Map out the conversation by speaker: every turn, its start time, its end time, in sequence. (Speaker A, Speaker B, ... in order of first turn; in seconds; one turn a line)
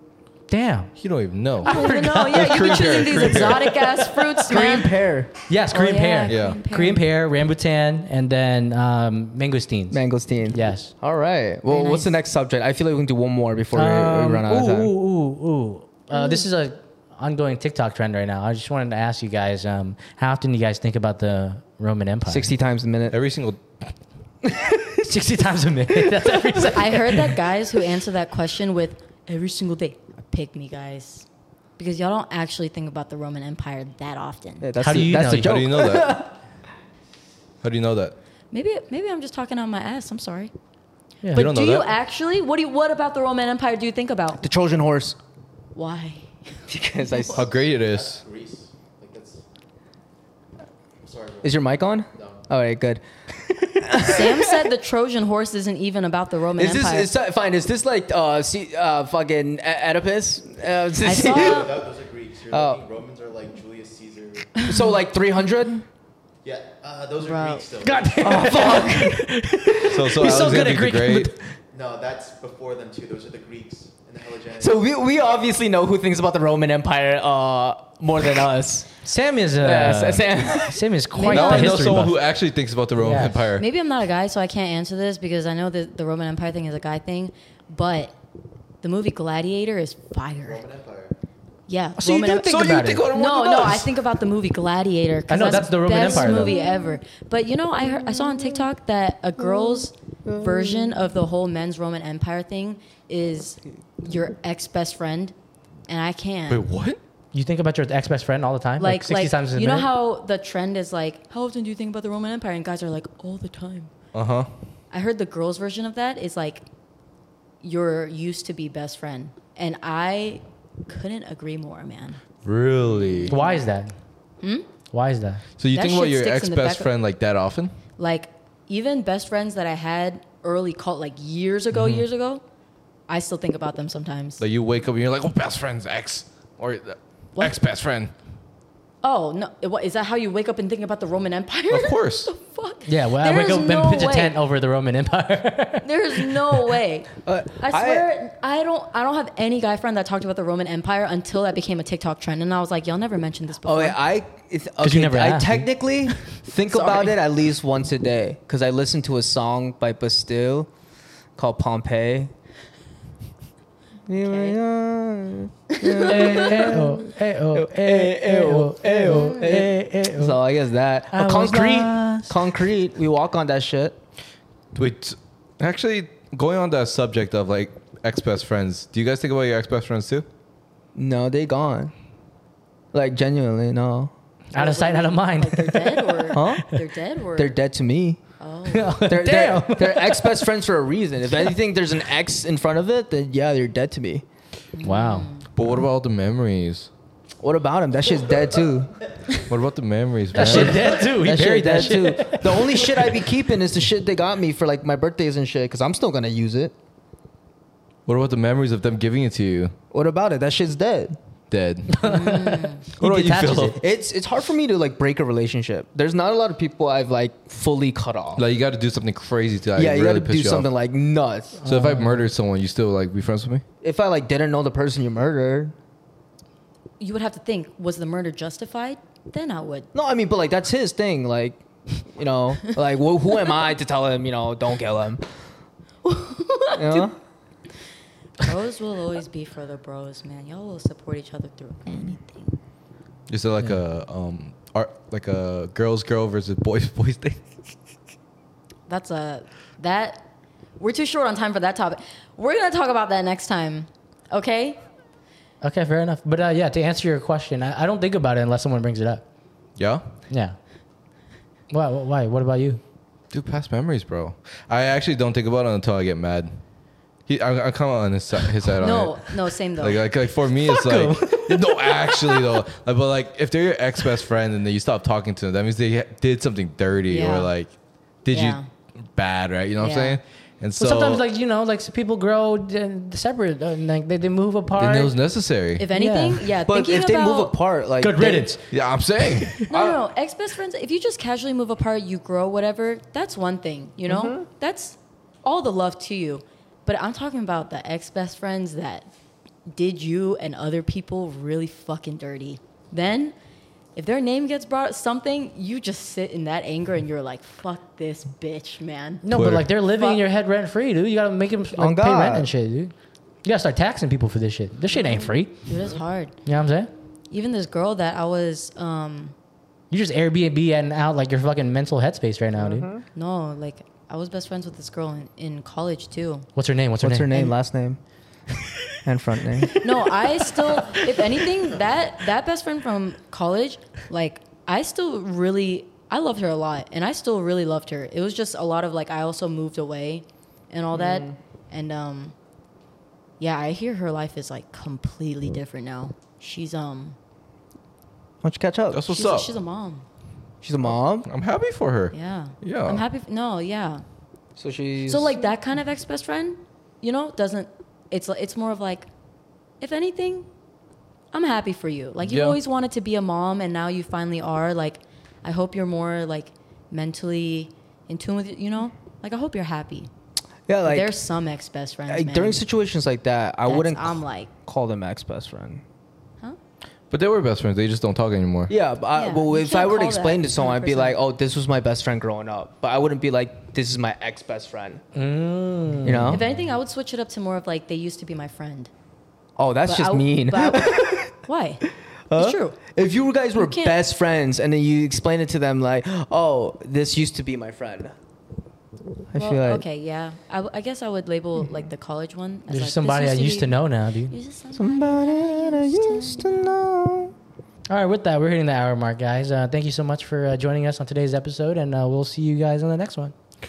Speaker A: 0.5-0.9
Speaker B: 1.0-3.8
Speaker A: 1.6-4.2
Speaker C: 1.6-5.0
Speaker D: 4.5-5.3
Speaker A: 5.5-10.9
Speaker C: 5.7-7.0
Speaker B: 6.3-6.6
Speaker D: 9.9-14.9
Speaker C: 11.7-12.1
Speaker A: 13.7-22.5
Speaker C: 16.1-16.4
Speaker D: 22.3-23.2
Speaker B: 23.1-23.6
Speaker D: 24.4-25.1
Speaker A: 25.0-27.4
Speaker C: 26.7-31.3
Speaker C: 31.8-34.7
Speaker D: 34.6-36.3
Speaker A: 34.8-35.6
Speaker B: 35.0-36.2
Speaker B: 37.6-38.2
Speaker C: 38.5-40.5
Speaker A: 41.2-41.5
Speaker C: 41.3-44.4
Speaker B: 41.4-41.9
Speaker D: 44.4-45.2
Speaker C: 45.8-46.3
Speaker D: 46.7-47.4
Speaker C: 47.0-47.4
Speaker B: 47.3-48.2
Speaker E: 47.6-49.4
Speaker E: 51.0-52.5
Speaker D: 51.4-53.0
Speaker D: 53.5-54.6
Speaker C: 54.0-57.1
Speaker D: 56.6-61.7
Speaker C: 61.0-61.8
Speaker E: 61.2-64.5
Speaker D: 62.5-62.8
Speaker D: 64.7-65.8
Speaker E: 66.4-68.8
Speaker C: 67.2-67.7
Speaker A: 67.8-71.4
Speaker D: 68.2-69.3
Speaker B: 69.8-71.3
Speaker E: 71.7-75.0
Speaker D: 74.6-78.9
Speaker A: 79.0-82.2
Speaker D: 79.6-80.9
Speaker C: 81.1-82.1
Speaker B: 81.2-83.7
Speaker A: 83.0-83.5
Speaker C: 83.6-88.2
Speaker C: 88.8-90.6
Speaker E: 90.4-91.1
Speaker C: 91.7-105.3
Speaker A: 92.0-93.1
Speaker B: 92.4-93.9
Speaker A: 95.3-96.7
Speaker D: 96.0-97.0
Speaker D: 97.9-98.7
Speaker D: 99.4-101.1
Speaker C: 105.9-106.6
Speaker B: 106.5-107.0
Speaker A: 107.3-109.9
Speaker C: 108.8-113.9
Speaker B: 114.1-114.5
Speaker C: 114.9-116.6
Speaker C: 117.6-122.2
Speaker B: 122.4-123.4
Speaker C: 123.3-123.6
Speaker A: 123.3-123.9
Speaker C: 124.4-124.7
Speaker A: 124.9-125.4
Speaker B: 125.6-127.8
Speaker C: 125.7-126.9
Speaker C: 128.0-132.4
Speaker B: 131.7-132.1
Speaker C: 133.1-134.4
Speaker B: 134.4-138.1
Speaker C: 139.0-144.3
Speaker B: 141.7-142.3
Speaker A: 142.9-146.8
Speaker C: 145.8-154.0
Speaker D: 147.2-148.1
Speaker D: 153.7-160.7
Speaker A: 154.8-156.3
Speaker C: 156.7-157.1
Speaker D: 161.4-162.3
Speaker D: 164.1-174.0
Speaker C: 164.2-164.6
Speaker C: 165.7-166.8
Speaker A: 166.0-170.4
Speaker C: 169.1-169.6
Speaker A: 171.1-172.3
Speaker B: 174.7-180.3
Speaker D: 180.9-181.9
Speaker D: 182.9-184.1
Speaker A: 184.5-186.6
Speaker C: 184.6-187.6
Speaker D: 186.3-186.8
Speaker D: 187.4-188.2
Speaker C: 188.4-189.1
Speaker A: 188.7-190.5
Speaker D: 189.1-194.2
Speaker C: 194.7-195.4
Speaker A: 194.8-195.3
Speaker B: 195.6-196.9
Speaker D: 197.4-198.9
Speaker B: 199.5-200.9
Speaker A: 200.3-203.2
Speaker D: 200.4-206.7
Speaker B: 208.1-209.8
Speaker D: 209.9-211.2
Speaker B: 211.5-212.1
Speaker A: 211.9-213.8
Speaker C: 212.0-212.8
Speaker B: 213.0-213.8
Speaker D: 213.8-218.4
Speaker B: 218.4-220.7
Speaker D: 219.8-221.7
Speaker A: 221.6-222.2
Speaker B: 221.7-223.6
Speaker D: 223.8-225.8
Speaker C: 227.0-229.9
Speaker D: 229.9-235.2
Speaker C: 236.0-237.1
Speaker D: 236.8-237.2
Speaker C: 238.4-242.6
Speaker B: 243.3-247.5
Speaker C: 248.9-250.2
Speaker C: 250.8-254.8
Speaker A: 255.6-259.2
Speaker B: 259.8-260.1
Speaker A: 260.3-260.6
Speaker A: 261.7-262.8
Speaker B: 263.3-266.5
Speaker B: 267.3-277.7
Speaker C: 268.8-270.1
Speaker A: 270.6-272.6
Speaker C: 277.1-277.5
Speaker B: 278.2-278.6
Speaker C: 278.3-278.6
Speaker B: 279.1-281.2
Speaker C: 279.8-280.2
Speaker A: 280.8-285.1
Speaker B: 284.8-285.9
Speaker C: 285.8-287.5
Speaker A: 285.9-286.5
Speaker D: 286.6-288.6
Speaker A: 288.0-288.7
Speaker B: 288.7-290.0
Speaker C: 289.7-299.1
Speaker D: 294.1-294.5
Speaker C: 299.7-303.4
Speaker C: 303.9-309.2
Speaker A: 309.2-312.9
Speaker B: 309.3-309.7
Speaker C: 309.9-310.2
Speaker D: 311.8-312.5
Speaker A: 313.4-315.6
Speaker C: 314.9-316.4
Speaker A: 316.4-316.9
Speaker C: 317.3-319.4
Speaker A: 319.9-322.9
Speaker D: 322.6-323.0
Speaker C: 323.1-326.5
Speaker A: 326.6-327.5
Speaker D: 327.0-328.0
Speaker D: 329.0-329.8
Speaker C: 329.8-342.4
Speaker D: 340.9-341.4
Speaker C: 343.4-347.2
Speaker D: 348.4-349.0
Speaker B: 348.9-349.5
Speaker C: 349.1-350.1
Speaker D: 350.6-351.3
Speaker B: 351.2-353.1
Speaker C: 352.1-354.0
Speaker D: 354.6-355.4
Speaker C: 355.1-359.1
Speaker C: 359.8-360.5
Speaker C: 361.3-370.1
Speaker B: 362.2-362.6
Speaker D: 370.7-371.1
Speaker C: 370.8-372.6
Speaker D: 372.1-375.8
Speaker C: 373.7-374.5
Speaker B: 377.1-378.7
Speaker D: 378.7-385.0
Speaker C: 379.1-381.2
Speaker A: 385.1-386.4
Speaker D: 386.0-386.4
Speaker C: 386.3-388.9
Speaker D: 389.6-391.4
Speaker C: 389.9-391.8
Speaker D: 392.3-398.1
Speaker C: 392.4-392.8
Speaker C: 393.6-394.0
Speaker D: 399.3-399.8
Speaker C: 399.4-406.8
Speaker A: 402.7-404.4
Speaker D: 404.7-407.3
Speaker A: 407.9-413.3